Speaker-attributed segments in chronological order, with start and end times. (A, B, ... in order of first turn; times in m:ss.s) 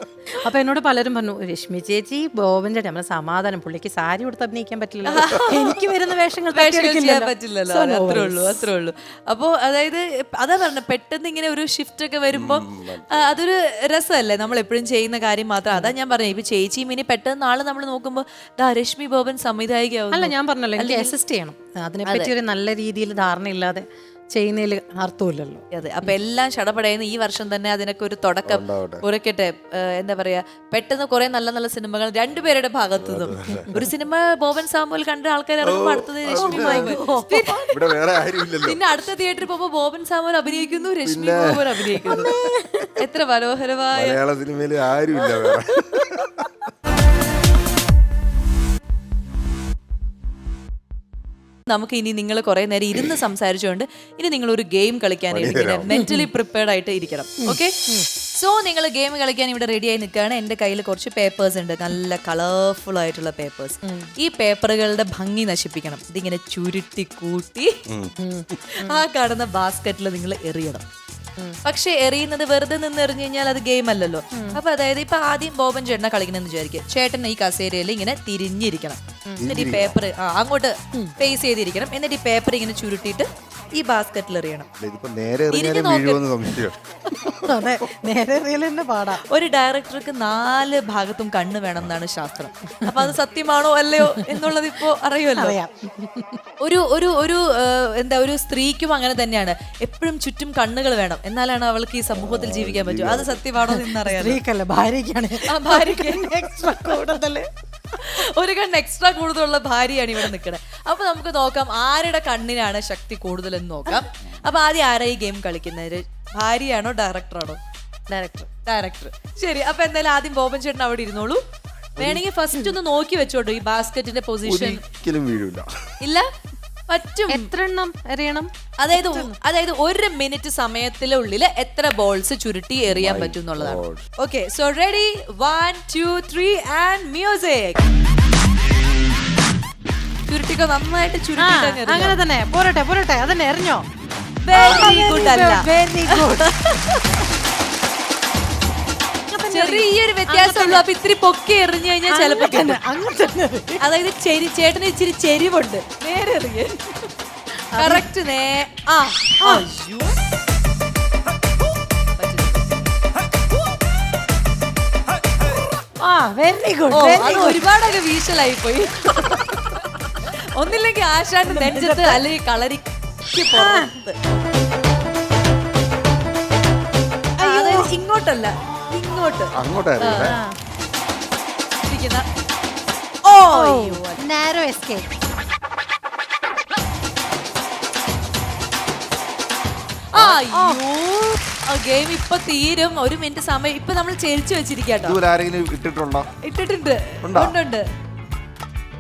0:00.3-0:08.7 A
0:05.1-0:05.8 B
0:06.5-0:21.1 B
0:12.3-0:13.3 C
0:20.1-0:25.6 A
0:22.1-0:22.3 B
0:25.7-0:37.8 B
0:28.5-0:29.0 C
0:33.0-0:33.8 C
0:35.6-0:37.0 C
0:36.4-0:37.7 A
0:37.7-0:38.8 C
0:38.6-0:42.3 B
0:41.1-0:41.7 C
0:41.9-0:43.0 A
0:43.0-0:44.2 B
0:43.9-0:46.5 C
0:45.2-0:45.6 A
0:51.7-0:57.8 B
0:55.3-0:55.9 C
0:55.9-0:56.3 A
0:57.4-0:58.1 A
0:58.4-1:07.7 B
1:03.8-1:04.1 A
1:07.9-1:08.1 C
1:08.2-1:09.0 A
1:08.7-1:10.8 B
1:11.6-1:24.7 B
1:14.3-1:14.6 A
1:19.4-1:20.0 C
1:20.9-1:21.3 A
1:24.8-1:27.7 C
1:25.5-1:26.2 B
1:27.2-1:29.2 A
1:29.3-1:35.6 B
1:35.4-1:36.4 A
1:36.6-1:44.4 B
1:42.1-1:43.4 C
1:43.6-1:47.5 A
1:45.4-1:47.2 B
1:48.0-1:57.6 B
1:58.1-1:58.5 A
1:58.7-2:01.4 B
2:02.0-2:04.8 B
2:02.0-2:02.2 C
2:04.4-2:05.7 C
2:06.0-2:06.3 B
2:06.9-2:07.5 B
2:07.3-2:09.4 A
2:08.8-2:17.8 B
2:12.9-2:14.0 C
2:20.3-2:22.2 B
2:21.4-2:23.8 A
2:24.4-2:27.0 B
2:24.5-2:26.5 A
2:29.3-2:30.8 A
2:29.5-2:32.8 B
2:32.1-2:33.8 A
2:33.8-2:37.1 B
2:37.7-2:38.1 A
2:37.8-2:40.2 B
2:39.4-2:39.7 A
2:42.2-2:42.9 B
2:46.0-2:47.6 A
2:46.9-2:54.2 B
2:51.5-2:52.2 A
2:53.5-2:53.9 A
2:57.4-3:00.4 B
2:57.4-2:57.9 A
2:59.6-3:00.4 C
3:00.2-3:00.6 A
3:01.9-3:02.3 B
3:03.3-3:04.2 B
3:03.5-3:05.1 A
3:10.1-3:15.2 B
3:10.4-3:10.8 A
3:15.0-3:16.3 C
3:16.4-3:17.8 B
3:17.2-3:17.6 C